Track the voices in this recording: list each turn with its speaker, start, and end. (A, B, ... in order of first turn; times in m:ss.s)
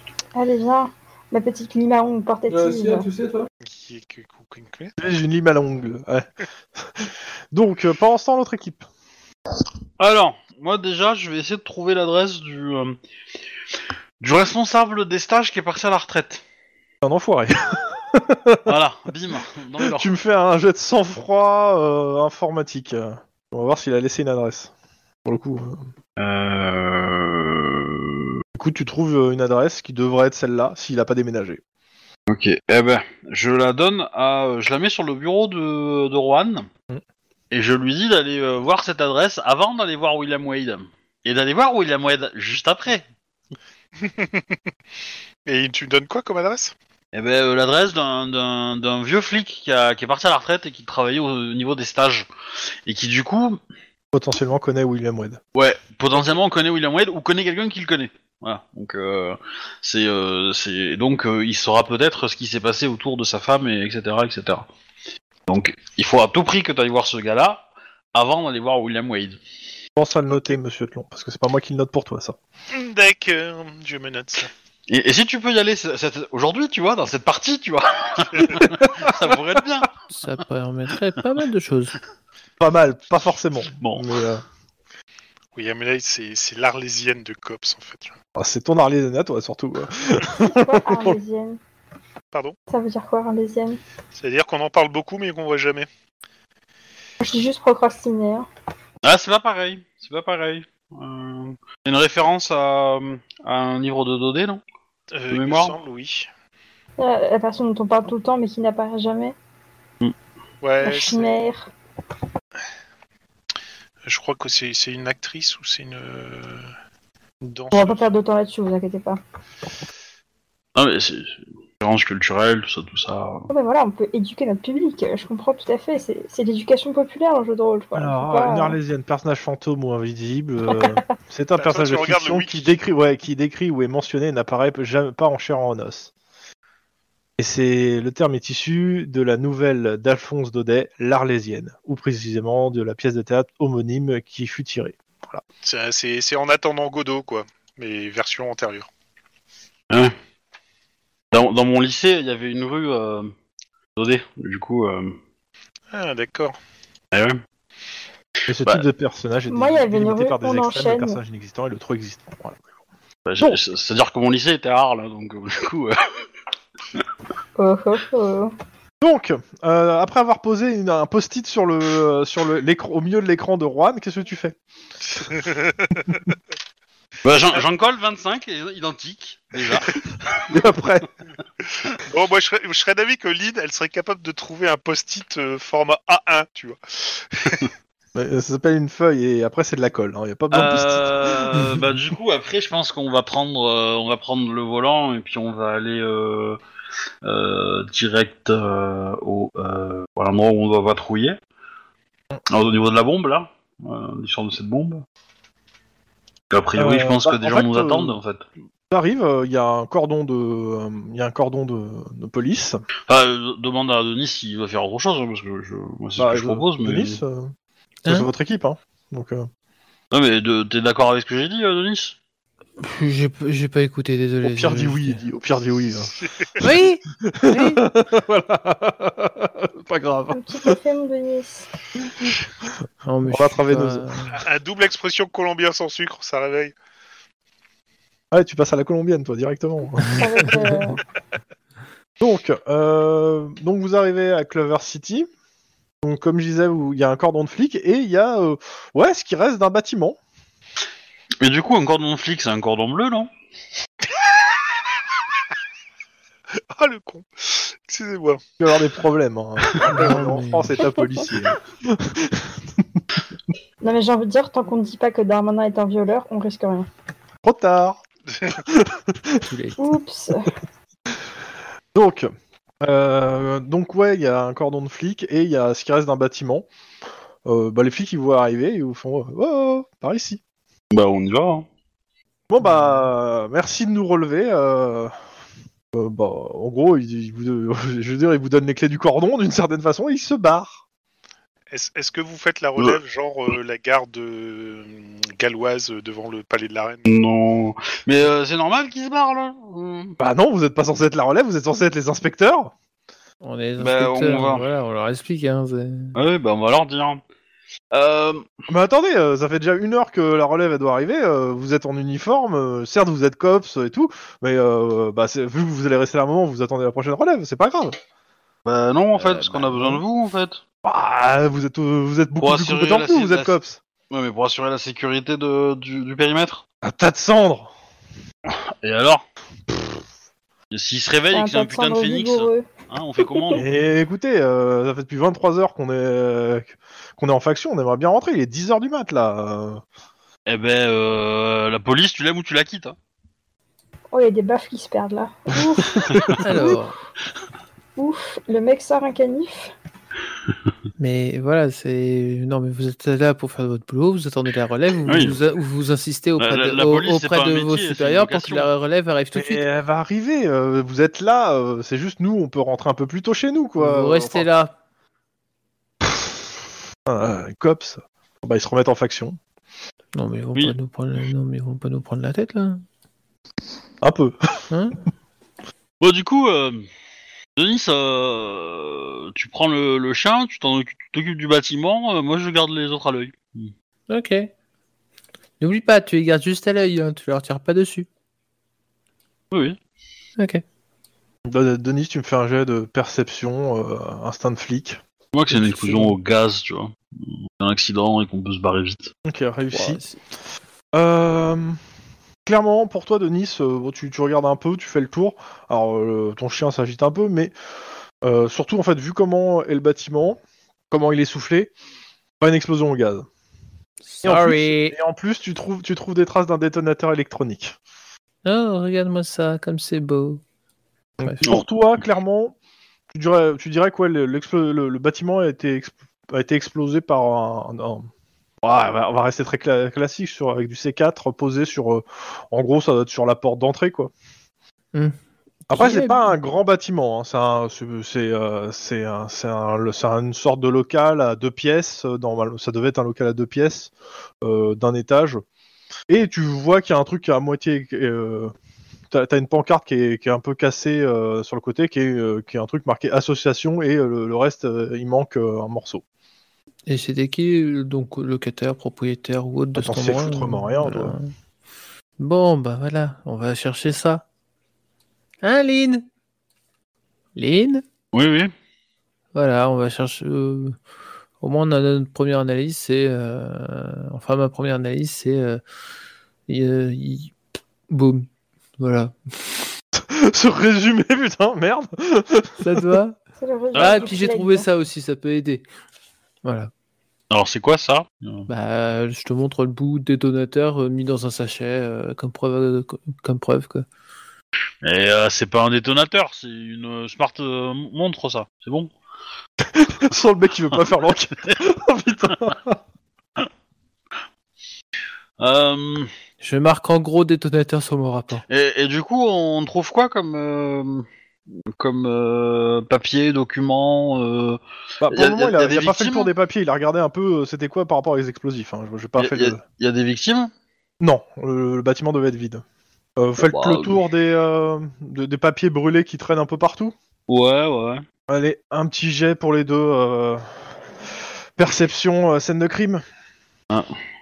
0:00.4-0:03.1 A
0:03.6-0:05.0 B
0:05.0-0:08.9 C
0:10.0-0:13.0 D
0:14.2-0:16.4 D
0:17.0-0:18.8 C
0:18.7-0:20.1 D
0:19.8-0:24.7 C
0:25.2-0:25.8 C
0:26.2-0:28.4 D
0:28.6-0:31.6 C
0:32.3-0:36.7 D
0:37.5-0:43.1 D
0:44.0-0:44.4 B
0:45.5-0:46.8 B
0:47.1-0:52.3 D
0:52.9-0:53.6 D
0:54.1-0:55.4 C
0:55.6-1:04.7 D
1:05.5-1:09.4 D
1:10.0-1:12.4 C
1:12.7-1:14.5 B
1:14.9-1:20.0 D
1:18.6-1:19.1 C
1:20.1-1:22.0 E
1:22.6-1:24.4 C
1:25.6-1:28.2 B
1:28.4-1:31.2 C
1:30.4-1:31.6 A
1:32.7-1:33.8 A
1:34.1-1:35.9 B
1:37.2-1:38.5 A
1:39.0-1:44.6 D
1:45.1-1:46.3 B
1:45.3-1:45.8 D
1:47.0-1:49.4 A
1:50.6-1:51.4 B
1:50.8-1:51.7 A
1:54.0-1:56.7 B
1:57.4-1:58.1 B
1:57.7-1:59.2 A
2:00.8-2:03.5 D
2:03.5-2:08.8 A
2:08.0-2:16.1 C
2:11.6-2:12.7 B
2:17.4-2:25.4 C
2:25.6-2:28.9 B
2:31.3-2:33.3 D
2:34.0-2:35.2 D
2:35.9-2:36.6 B
2:37.1-2:37.4 D
2:38.5-2:42.6 C
2:39.5-2:41.2 A
2:43.3-2:46.0 D
2:47.6-2:48.5 A
2:49.0-2:54.6 C
2:55.1-2:56.2 B
2:57.2-3:00.4 D
3:00.4-3:01.1 C
3:02.0-3:07.7 B
3:08.2-3:11.8 C
3:10.5-3:16.6 D
3:17.2-3:21.4 D
3:22.5-3:25.0 D
3:26.5-3:28.4 D
3:26.8-3:28.2 C
3:28.9-3:32.8 C
3:33.1-3:37.2 D
3:36.2-3:37.5 C
3:38.1-3:39.5 C
3:40.1-3:42.2 D
3:42.8-3:45.2 E
3:44.4-3:46.1 C
3:46.2-3:46.5 B
3:46.6-3:47.8 E
3:47.3-3:50.6 C
3:50.3-3:51.7 A
3:52.0-3:52.4 C
3:53.0-3:54.4 E
3:53.3-3:54.3 C
3:54.3-3:56.7 B
3:58.3-4:00.7 C
4:00.1-4:01.0 A
4:02.2-4:05.3 C
4:06.0-4:10.2 C
4:11.4-4:13.3 D
4:16.7-4:18.4 B
4:18.6-4:23.0 C
4:19.8-4:20.8 E
4:23.8-4:26.9 A
4:27.4-4:29.5 C
4:29.5-4:29.8 E
4:29.8-4:30.5 A
4:31.9-4:32.3 C
4:32.8-4:36.7 C
4:37.4-4:40.4 C
4:40.9-4:41.7 D
4:42.5-4:45.1 C
4:45.9-4:50.8 C
4:51.7-4:57.1 B
4:57.1-5:00.2 D
5:00.2-5:02.7 C
5:03.4-5:06.2 E
5:03.8-5:04.6 D
5:06.2-5:07.2 D
5:07.9-5:08.5 D
5:08.7-5:18.0 C
5:18.6-5:20.6 D
5:19.2-5:20.0 C
5:20.8-5:23.8 C
5:22.4-5:23.6 D
5:24.1-5:26.6 D
5:26.8-5:27.7 C
5:28.5-5:29.2 D
5:30.7-5:33.7 D
5:31.3-5:32.7 A
5:33.6-5:39.8 C
5:40.5-5:43.0 D
5:44.1-5:46.7 A
5:46.0-5:46.4 D
5:46.4-5:47.0 E
5:48.0-5:49.7 A
5:51.0-5:59.7 E
5:55.0-5:55.4 D
5:56.4-5:58.7 D
5:59.3-6:04.5 C
6:03.8-6:04.7 E
6:07.1-6:09.4 C
6:10.2-6:12.8 E
6:14.0-6:14.4 C
6:14.7-6:15.0 E
6:16.0-6:16.9 D
6:17.6-6:23.7 D
6:24.1-6:24.5 E
6:25.6-6:28.1 E
6:29.5-6:29.8 D
6:30.4-6:30.6 E
6:31.5-6:35.0 C
6:35.3-6:39.1 D
6:35.5-6:36.2 E
6:39.2-6:40.0 C
6:39.7-6:40.2 E
6:40.9-6:41.8 C
6:42.4-6:47.5 C
6:48.2-6:50.4 C
6:50.9-6:51.7 C
6:52.4-6:53.3 C
6:54.0-6:55.0 E
6:54.2-6:57.8 C
6:58.4-7:00.4 E
7:01.2-7:01.5 E
7:01.2-7:02.6 C
7:03.1-7:08.1 C
7:08.6-7:14.1 C
7:15.7-7:16.2 E
7:15.7-7:25.4 C
7:26.1-7:28.5 C
7:29.1-7:36.0 C
7:36.9-7:41.3 E
7:39.8-7:41.2 C
7:42.2-7:44.2 E
7:45.4-7:46.1 E
7:47.4-7:47.8 E
7:48.1-7:48.5 D
7:49.3-7:50.8 E
7:51.4-7:55.6 E
7:56.5-7:57.3 E
7:57.9-7:59.6 E
8:00.0-8:02.9 C
8:02.6-8:03.2 E
8:03.4-8:04.7 A
8:03.8-8:04.1 D
8:03.8-8:05.6 E
8:06.4-8:06.7 E
8:07.3-8:08.5 D
8:08.5-8:13.9 E
8:14.8-8:18.9 D
8:19.7-8:22.8 C
8:25.4-8:26.1 D
8:26.4-8:28.4 E
8:28.5-8:31.1 D
8:31.7-8:36.3 D
8:35.0-8:39.6 C
8:39.2-8:40.5 D
8:41.0-8:42.6 C
8:43.2-8:47.0 C
8:43.4-8:44.0 D
8:47.3-8:48.0 D
8:48.3-8:50.8 C
8:51.6-8:53.0 C